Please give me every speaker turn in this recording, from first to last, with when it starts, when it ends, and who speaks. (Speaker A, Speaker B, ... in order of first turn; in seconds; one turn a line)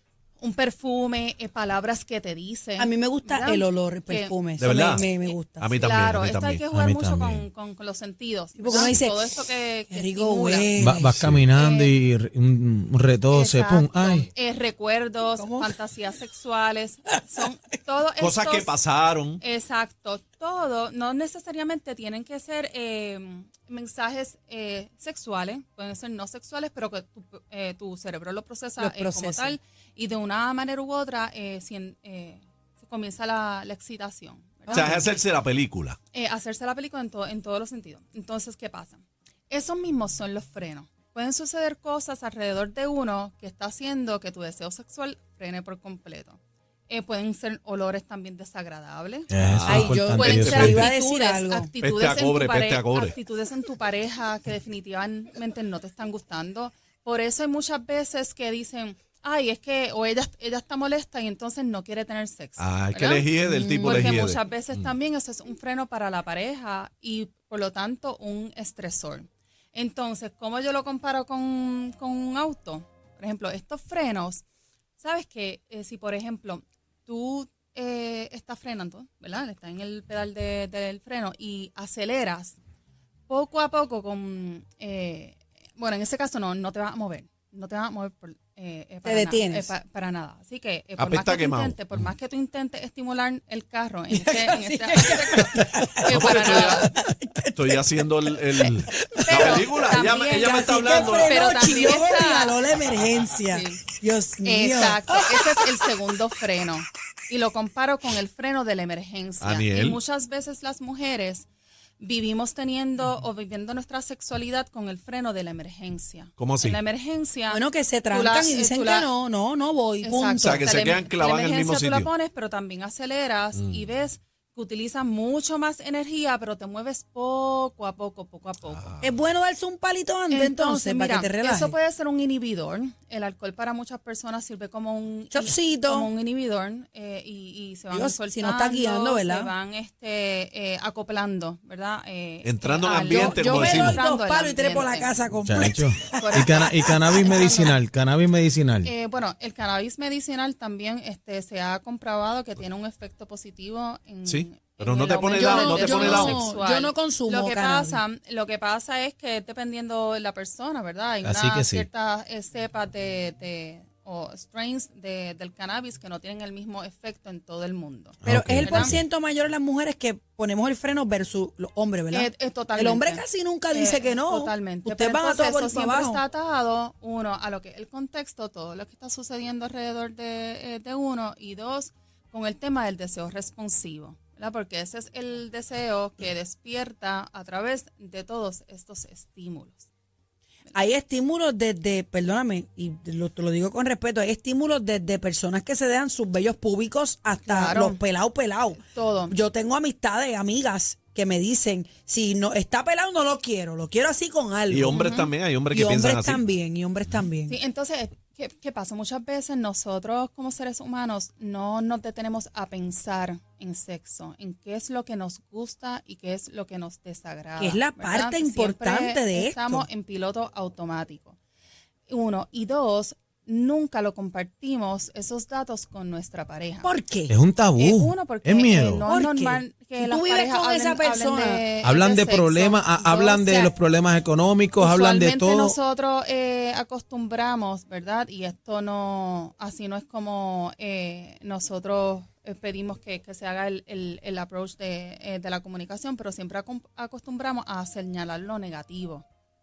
Speaker A: 0.4-10.7
Speaker B: 2.8-5.7
Speaker C: 4.6-5.1
Speaker C: 5.6-6.7
Speaker D: 6.7-7.5
Speaker B: 8.6-9.4
Speaker B: 9.9-11.2
Speaker D: 10.8-14.3
Speaker C: 11.2-11.5
Speaker A: 11.5-11.9
Speaker A: 13.3-18.7
Speaker B: 15.4-15.8
Speaker C: 18.2-19.4
Speaker A: 19.4-35.1
Speaker B: 28.8-29.6
Speaker B: 34.7-35.2
Speaker C: 34.7-36.0
Speaker A: 36.1-63.3
Speaker D: 49.3-50.9
Speaker C: 49.4-50.9
Speaker B: 49.7-51.7
Speaker C: 51.8-53.1
Speaker C: 62.6-64.9
Speaker B: 63.4-64.1
Speaker A: 63.8-74.5
Speaker A: 75.0-82.6
Speaker A: 83.3-97.0
Speaker B: 89.0-89.7
Speaker C: 91.0-91.8
Speaker B: 94.1-97.8
Speaker C: 96.1-96.9
Speaker C: 97.5-101.4
Speaker B: 98.5-99.7
Speaker A: 99.3-102.6
Speaker B: 100.3-105.4
Speaker A: 103.5-103.8
Speaker A: 104.4-111.5
Speaker C: 109.4-110.0
Speaker A: 112.0-119.1
Speaker C: 116.4-116.8
Speaker B: 117.5-120.6
Speaker A: 120.0-129.0
Speaker C: 120.4-122.1
Speaker C: 123.5-123.8
Speaker C: 128.7-129.0
Speaker B: 129.0-131.8
Speaker A: 130.3-145.2
Speaker B: 135.3-136.1
Speaker B: 137.9-139.5
Speaker C: 142.4-144.0
Speaker B: 143.1-147.5
Speaker D: 145.4-148.9
Speaker A: 146.1-147.8
Speaker A: 148.8-168.9
Speaker C: 154.3-156.4
Speaker B: 155.3-158.0
Speaker D: 161.2-161.9
Speaker D: 168.2-169.0
Speaker B: 168.2-176.2
Speaker A: 172.1-189.9
Speaker B: 190.7-205.0
Speaker A: 197.4-198.0
Speaker A: 198.8-199.4
Speaker C: 204.7-206.4
Speaker A: 204.9-205.3
Speaker B: 205.7-207.6
Speaker A: 207.5-221.4
Speaker B: 217.6-219.9
Speaker A: 222.1-226.9
Speaker B: 226.8-227.3
Speaker D: 227.3-229.1
Speaker A: 227.8-233.4
Speaker B: 229.1-231.7
Speaker D: 231.8-235.8
Speaker B: 233.2-233.7
Speaker A: 234.8-249.2